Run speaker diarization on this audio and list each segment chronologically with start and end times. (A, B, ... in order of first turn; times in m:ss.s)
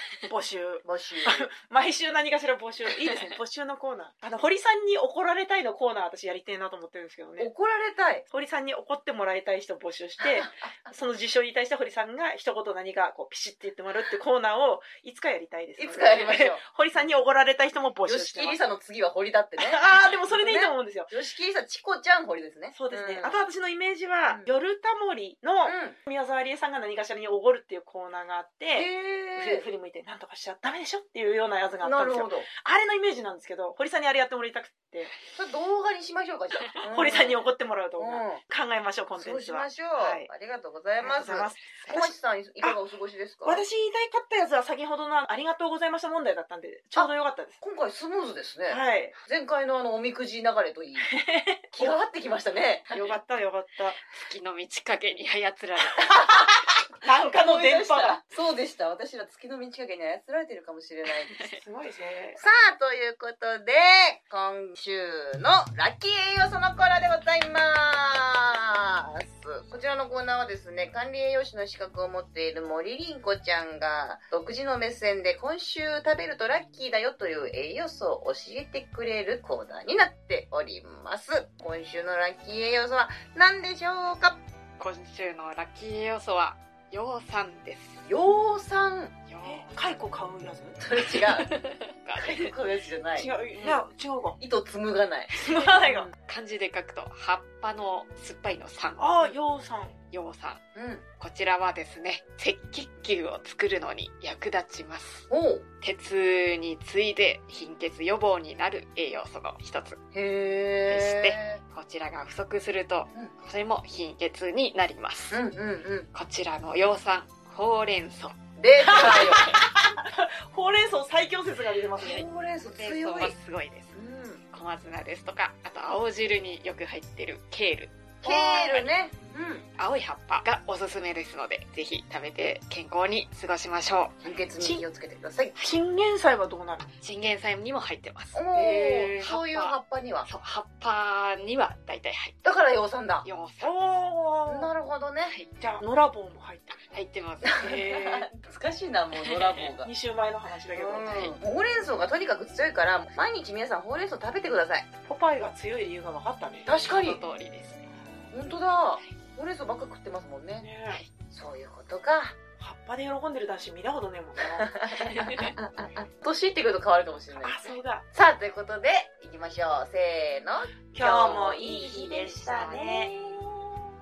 0:00.3-0:07.5 A
0:00.8-0:01.5 B
0:07.4-0:08.2 B
0:08.3-0:18.6 A
0:10.2-0:10.5 B
0:15.8-0:16.6 B
0:18.0-0:23.4 B
0:19.6-0:21.1 A
0:22.7-0:35.1 A
0:25.6-0:26.0 B
0:28.7-0:29.6 B
0:31.8-0:32.5 B
0:35.3-0:37.4 B
0:36.8-0:40.3 A
0:38.0-0:38.4 B
0:39.2-0:43.6 B
0:41.0-0:42.1 A
0:43.4-0:47.6 A
0:46.9-0:51.1 B
0:48.7-0:49.1 A
0:51.0-0:52.0 A
0:51.7-0:52.9 B
0:52.9-0:54.0 A
0:54.0-0:56.2 C
0:56.0-0:58.2 A
0:57.3-1:01.5 B
1:01.3-1:01.6 C
1:01.6-1:02.4 A
1:02.4-1:24.4 B
1:24.8-1:28.1 C
1:28.1-1:29.1 B
1:29.3-1:30.0 C
1:29.4-1:30.8 A
1:30.8-1:31.6 B
1:31.0-1:32.5 C
1:32.1-1:33.3 B
1:33.2-1:34.4 A
1:34.4-1:35.4 B
1:35.3-1:36.1 A
1:36.2-1:39.3 C
1:39.0-1:40.0 A
1:40.1-1:40.6 C
1:40.7-1:41.0 B
1:41.2-1:45.3 C
1:45.3-1:45.6 B
1:45.8-1:50.0 C
1:50.1-1:51.6 B
1:50.9-1:55.4 C
1:55.3-1:56.1 B
1:56.1-1:58.4 C
1:58.6-1:59.6 B
1:58.8-2:02.2 A
2:02.0-2:03.3 B
2:02.0-2:04.0 C
2:03.9-2:04.4 B
2:04.5-2:08.9 C
2:08.2-2:09.6 B
2:09.8-2:14.2 C
2:14.2-2:15.6 B
2:14.6-2:14.8 A
2:15.6-2:16.8 A
2:16.8-2:22.4 C
2:18.3-2:20.3 B
2:22.4-2:23.3 B
2:23.2-2:23.7 C
2:23.6-2:24.7 A
2:24.5-2:25.3 B
2:25.3-2:25.5 C
2:25.6-2:26.9 A
2:26.8-2:28.3 C
2:27.4-2:29.9 B
2:29.2-2:29.6 C
2:29.8-2:31.1 A
2:30.7-2:34.8 B
2:31.0-2:31.4 C
2:35.0-2:36.7 A
2:36.6-2:37.2 B
2:36.7-2:37.9 C
2:38.3-2:40.7 B
2:40.6-2:41.0 A
2:41.3-2:42.4 B
2:42.6-2:45.5 A
2:44.6-2:53.8 B
2:45.0-2:45.5 C
2:47.3-2:48.0 A
2:50.9-2:53.1 A